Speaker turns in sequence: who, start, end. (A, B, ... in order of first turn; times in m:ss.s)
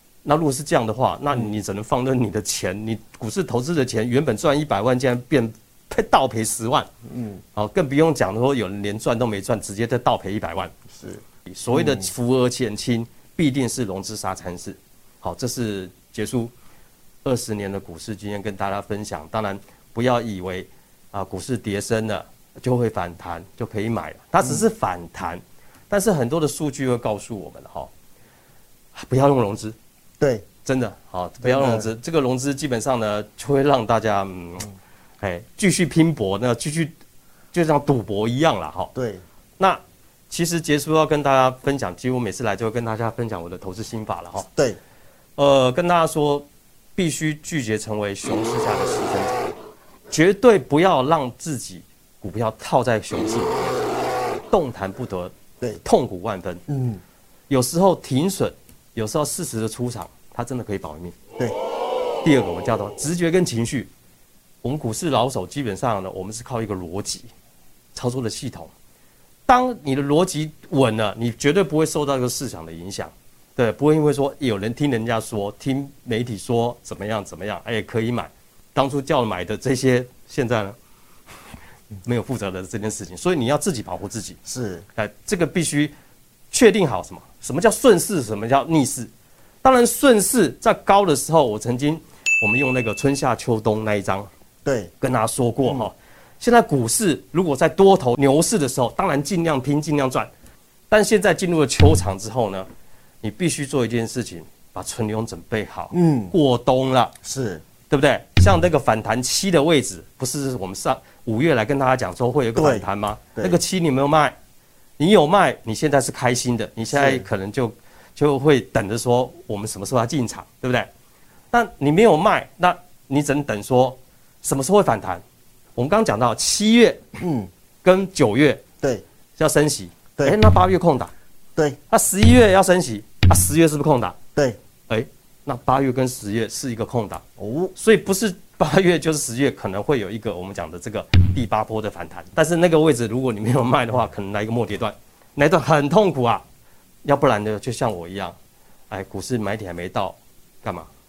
0:00.2-0:06.9 A
0:07.1-0:07.4 B
0:07.6-0:10.7 A
0:11.0-0:11.2 B
0:11.5-0:16.5 A
0:11.7-0:12.1 B
0:17.2-0:27.9 A
0:29.0-0:29.8 A
0:30.2-0:30.5 B
0:30.6-0:36.9 A
0:31.4-0:31.9 B
0:37.5-0:38.9 A
0:39.0-0:39.2 B
0:39.6-0:44.5 A
0:45.4-0:49.4 A
0:50.1-0:53.8 A
0:54.5-0:56.6 A
0:56.7-0:57.0 B
0:57.5-1:01.2 A
1:02.2-1:03.9 A
1:04.6-1:07.3 A
1:08.0-1:08.7 A
1:09.5-1:20.8 A
1:22.0-1:24.4 A
1:24.5-1:24.8 B
1:25.0-1:25.9 A
1:26.5-1:29.1 A
1:29.6-1:34.3 A
1:34.6-1:34.9 B
1:35.0-1:40.3 A
1:35.6-1:35.9 B
1:40.9-1:42.7 A
1:43.2-1:47.1 A
1:45.9-1:46.3 B
1:47.2-1:47.6 B
1:47.9-1:54.4 A
1:52.6-1:52.8 B
1:55.0-2:00.9 A
1:56.9-1:57.3 B
2:01.5-2:05.2 A
2:05.8-2:07.2 A
2:07.2-2:07.5 B
2:07.8-2:08.6 A
2:09.4-2:11.1 A
2:11.9-2:14.2 A
2:14.9-2:17.2 A
2:17.4-2:17.7 B
2:17.8-2:26.4 A
2:27.0-2:28.4 A
2:28.9-2:30.9 A